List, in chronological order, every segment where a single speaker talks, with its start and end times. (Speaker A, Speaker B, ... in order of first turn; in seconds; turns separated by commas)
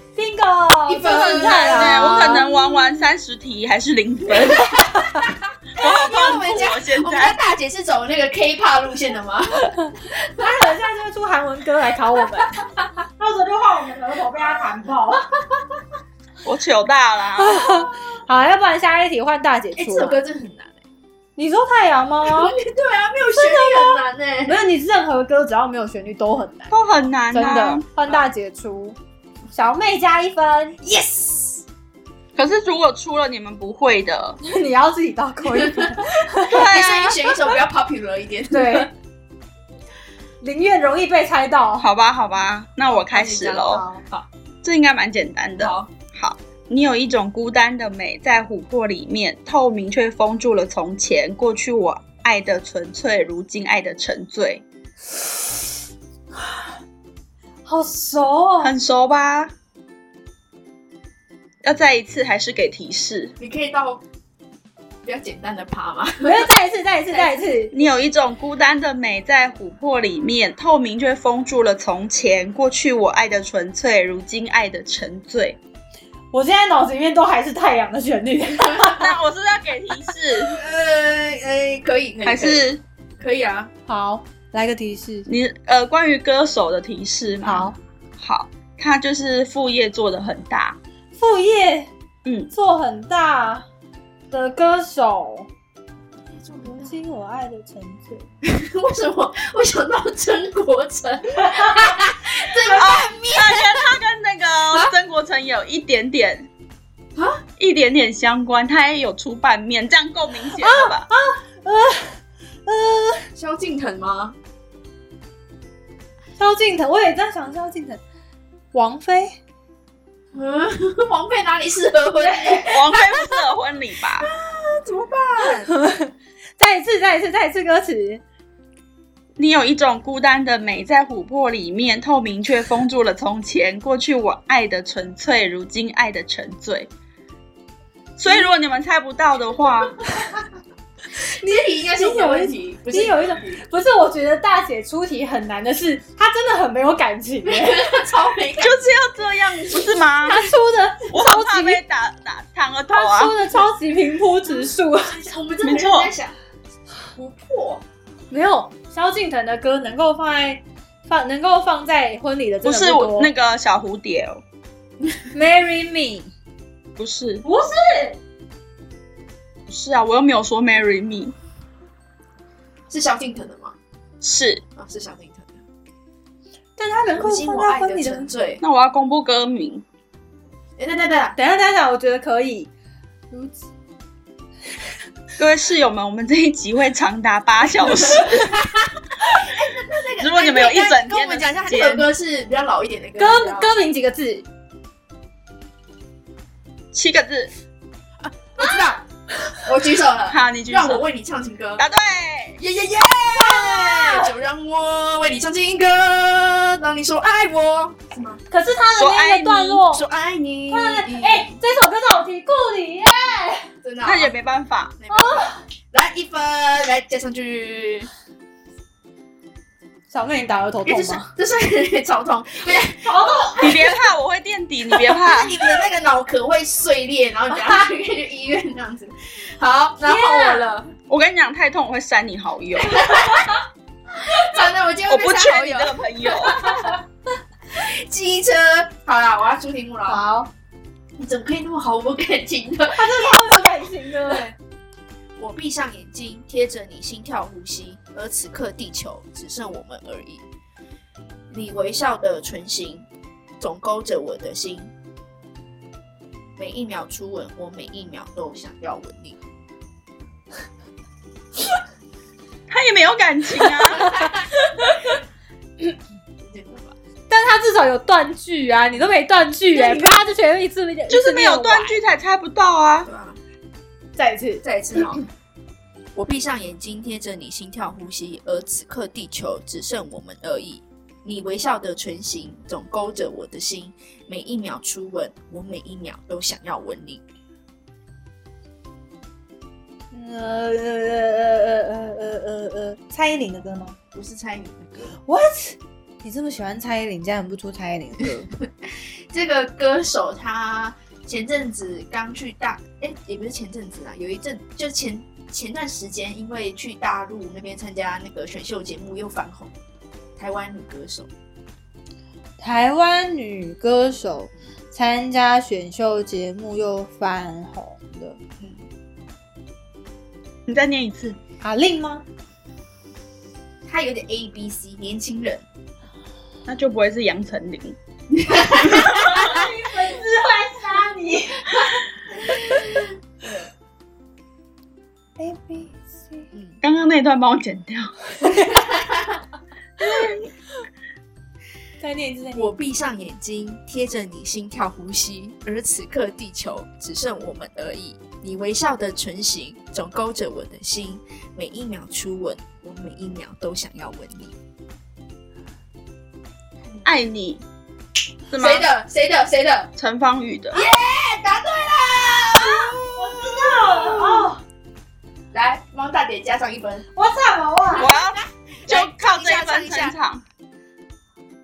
Speaker A: 0.2-3.0, Speaker B: 0.9-2.5, Speaker C: 1.5-4.9, Speaker B: 4.3-10.8, Speaker C: 5.8-7.4, Speaker A: 10.4-12.6, Speaker A: 13.2-15.3, Speaker C: 16.4-17.7, Speaker A: 17.4-20.2, Speaker B: 19.8-20.8, Speaker A: 21.4-22.5, Speaker B: 22.2-24.6, Speaker A: 23.3-26.7, Speaker C: 26.7-27.8, Speaker A: 27.3-29.0, Speaker A: 29.5-30.8, Speaker B: 30.8-31.6, Speaker C: 32.4-34.4, Speaker A: 34.4-36.8, Speaker B: 35.5-38.9, Speaker C: 36.5-37.2, Speaker A: 38.5-38.9, Speaker A: 40.4-41.9, Speaker C: 41.8-43.9, Speaker B: 43.1-44.3, Speaker A: 43.7-44.0, Speaker C: 44.6-54.6, Speaker B: 45.6-45.9, Speaker A: 57.7-58.7, Speaker C: 58.6-59.5, Speaker C: 61.6-63.3, Speaker B: 63.4-64.0, Speaker B: 65.0-66.5, Speaker A: 66.2-67.7, Speaker B: 67.1-67.5, Speaker C: 67.7-75.6, Speaker A: 76.3-79.1, Speaker B: 78.7-79.0, Speaker C: 78.9-80.6, Speaker B: 80.5-82.7, Speaker C: 82.2-82.8, Speaker B: 83.2-83.7, Speaker A: 83.9-85.3, Speaker C: 85.3-90.8, Speaker A: 87.4-87.8, Speaker A: 91.2-91.9, Speaker C: 92.2-92.5, Speaker A: 92.5-93.7, Speaker A: 94.3-95.5, Speaker B: 96.3-97.0, Speaker A: 96.7-98.3, Speaker B: 98.4-104.0, Speaker A: 101.4-101.9, Speaker C: 102.7-106.5, Speaker B: 107.2-107.4, Speaker C: 107.6-111.1, Speaker A: 110.6-113.3, Speaker B: 113.4-114.4, Speaker A: 116.4-118.0, Speaker A: 118.7-119.4, Speaker B: 120.3-123.2, Speaker A: 122.2-122.7, Speaker C: 122.7-124.3, Speaker B: 124.2-125.7, Speaker A: 125.7-128.2, Speaker C: 129.4-136.9, Speaker C: 138.2-140.0, Speaker B: 141.2-143.6, Speaker A: 141.9-147.9, Speaker B: 147.4-149.0, Speaker C: 148.6-150.5, Speaker A: 150.2-151.8, Speaker C: 151.1-153.3, Speaker A: 152.9-155.2, Speaker B: 154.5-156.3, Speaker C: 155.6-156.1, Speaker B: 157.1-157.8, Speaker A: 158.3-163.3, Speaker C: 162.6-164.4, Speaker A: 165.3-166.3, Speaker C: 167.0-167.4, Speaker A: 167.4-168.2, Speaker C: 169.7-171.3, Speaker B: 172.9-173.8, Speaker C: 174.2-174.6, Speaker B: 174.8-175.6, Speaker A: 176.8-178.3, Speaker B: 177.1-178.6, Speaker C: 178.6-179.8, Speaker B: 180.8-181.4, Speaker A: 181.4-182.7, Speaker A: 183.3-183.6, Speaker C: 185.4-188.6, Speaker B: 187.8-193.7, Speaker C: 190.2-192.1, Speaker A: 193.2-194.4, Speaker C: 196.9-197.5, Speaker B: 198.2-199.0, Speaker B: 199.7-201.8, Speaker C: 200.3-201.0, Speaker C: 201.8-202.6, Speaker B: 202.6-208.4, Speaker A: 203.3-204.3, Speaker A: 208.5-210.0, Speaker C: 208.9-209.8, Speaker B: 209.9-211.6, Speaker A: 210.7-213.7, Speaker B: 213.8-214.3, Speaker C: 214.0-214.9, Speaker B: 215.0-218.1, Speaker A: 215.1-215.6, Speaker A: 220.1-221.3, Speaker B: 220.9-224.0, Speaker A: 223.0-223.7, Speaker C: 223.6-225.6, Speaker B: 224.9-230.9, Speaker A: 230.0-230.6, Speaker C: 231.1-233.1, Speaker B: 232.8-233.6, Speaker B: 234.2-236.9, Speaker C: 235.1-236.8, Speaker A: 236.6-236.9, Speaker B: 237.7-240.2, Speaker A: 240.1-240.5, Speaker B: 241.2-243.6, Speaker A: 242.9-244.5, Speaker B: 244.3-244.5, Speaker B: 245.4-250.4, Speaker B: 251.5-253.1, Speaker B: 253.6-254.9, Speaker B: 256.6-259.4, Speaker C: 262.7-264.2, Speaker B: 264.0-264.4, Speaker A: 264.0-264.9, Speaker B: 266.4-266.9, Speaker A: 267.3-272.0, Speaker B: 269.8-270.1, Speaker C: 271.1-273.1, Speaker B: 273.1-273.4, Speaker A: 274.2-275.2, Speaker B: 274.6-275.2, Speaker B: 276.1-287.2, Speaker A: 290.1-294.0, Speaker B: 294.1-295.2, Speaker A: 295.2-298.5, Speaker B: 298.5-309.7, Speaker B: 310.4-311.3, Speaker A: 312.6-318.4, Speaker B: 318.6-318.9, Speaker C: 320.7-321.4, Speaker A: 321.6-322.2, Speaker B: 323.9-325.6, Speaker C: 326.7-328.0, Speaker B: 328.3-329.6, Speaker A: 329.1-332.9, Speaker B: 332.4-333.7, Speaker A: 335.4-336.5, Speaker B: 336.5-336.8, Speaker C: 336.8-338.1, Speaker A: 338.4-338.9, Speaker B: 338.6-339.4, Speaker A: 340.0-340.4, Speaker C: 340.0-340.4, Speaker A: 342.0-342.7, Speaker B: 342.5-354.6, Speaker B: 356.8-357.1, Speaker C: 357.1-357.6, Speaker C: 358.5-358.9, Speaker B: 358.5-359.9, Speaker C: 360.0-360.8, Speaker B: 360.7-364.5, Speaker A: 362.6-364.6, Speaker B: 365.5-367.1, Speaker A: 367.1-368.1, Speaker B: 368.0-370.2, Speaker C: 368.0-370.4